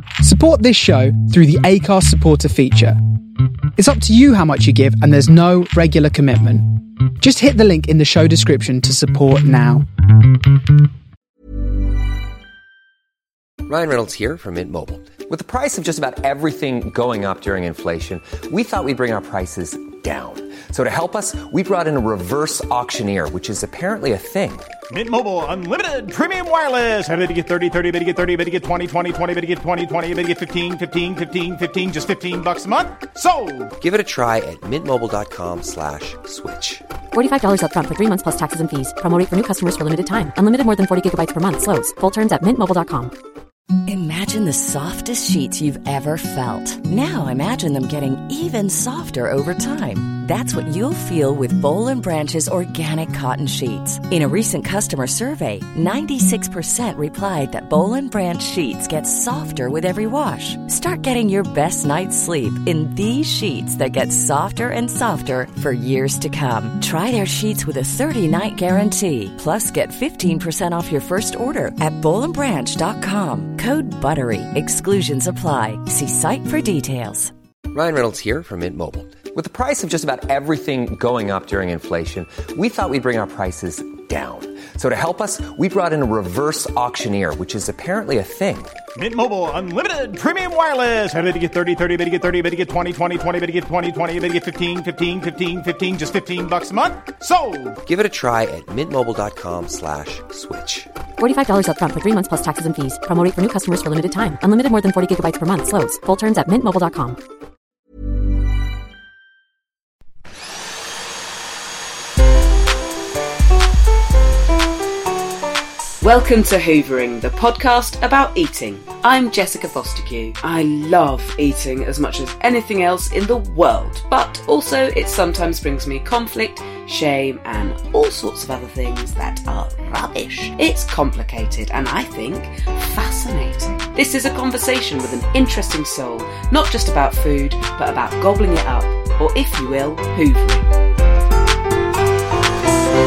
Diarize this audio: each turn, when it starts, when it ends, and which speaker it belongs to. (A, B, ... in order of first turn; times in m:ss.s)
0:00.2-0:03.0 A
0:03.8-0:06.6 A
0:07.2-0:09.8 A
0:13.7-0:24.7 B
0:24.9-0:33.7 C
0:33.8-0:36.8 B
0:37.1-0:43.1 D
0:43.8-1:17.3 E
1:17.7-1:28.7 B
1:29.0-1:37.8 C
1:37.8-1:40.9 B
1:41.2-1:47.2 D
1:56.0-2:20.7 F